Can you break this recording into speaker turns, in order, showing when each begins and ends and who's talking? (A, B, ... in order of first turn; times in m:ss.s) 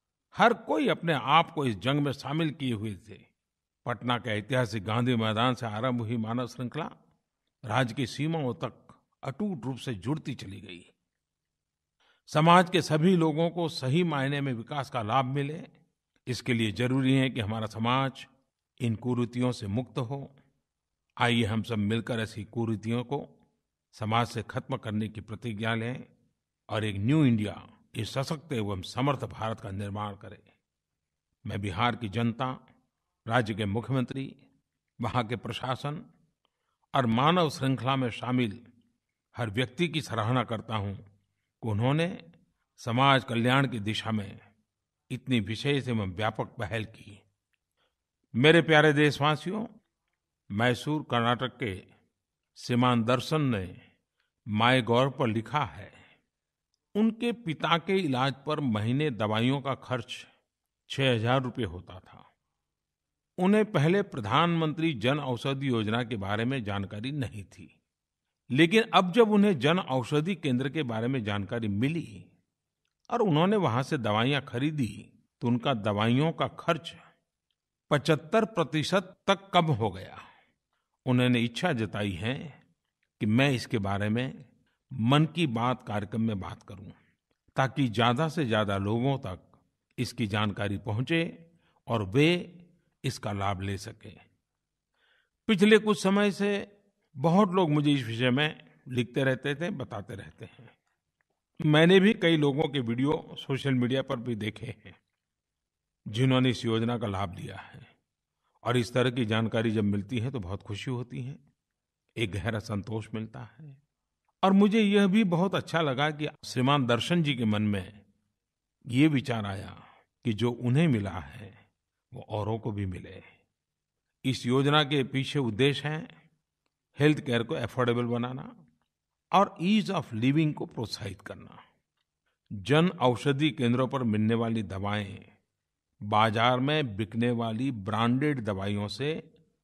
0:00.3-0:03.2 A
0:03.8-0:06.9 A
0:07.7-0:10.9 A
0:12.3-0:15.7 A
0:16.3-0:20.3 A
0:21.2-0:23.3 A
0:23.9-0:26.1 A
0:26.7-0:30.5 A
0:31.4-0:32.6 A
0:33.3-0:34.4 A
0:35.0-0:36.0 A
0:36.9-0:38.6 A
0:39.3-0:41.0 A
0:41.6-0:42.2 A
0:42.8-0:44.4 A
0:45.1-0:47.2 A
0:48.4-0:49.7 A
0:50.5-0:51.8 A
0:52.6-0:53.8 A
0:54.5-0:56.0 A
0:57.0-1:00.3 A
1:00.9-1:02.3 A
1:03.4-1:07.7 A
1:08.6-1:12.3 A
1:13.1-1:17.0 A
1:17.9-1:20.2 A
1:21.1-1:22.6 A
1:23.2-1:24.4 A
1:25.0-1:27.0 A
1:27.6-1:31.3 A
1:31.9-1:34.2 A
1:35.5-1:40.7 A
1:41.6-1:45.0 A
1:46.1-1:47.9 A
1:48.6-1:51.4 A
1:52.2-1:53.8 A
1:54.4-1:58.0 A
1:58.9-2:01.6 A
2:02.1-2:03.3 A
2:04.2-2:06.1 A
2:07.0-2:08.5 A
2:09.3-2:11.6 A
2:12.6-2:15.3 A
2:16.1-2:19.2 A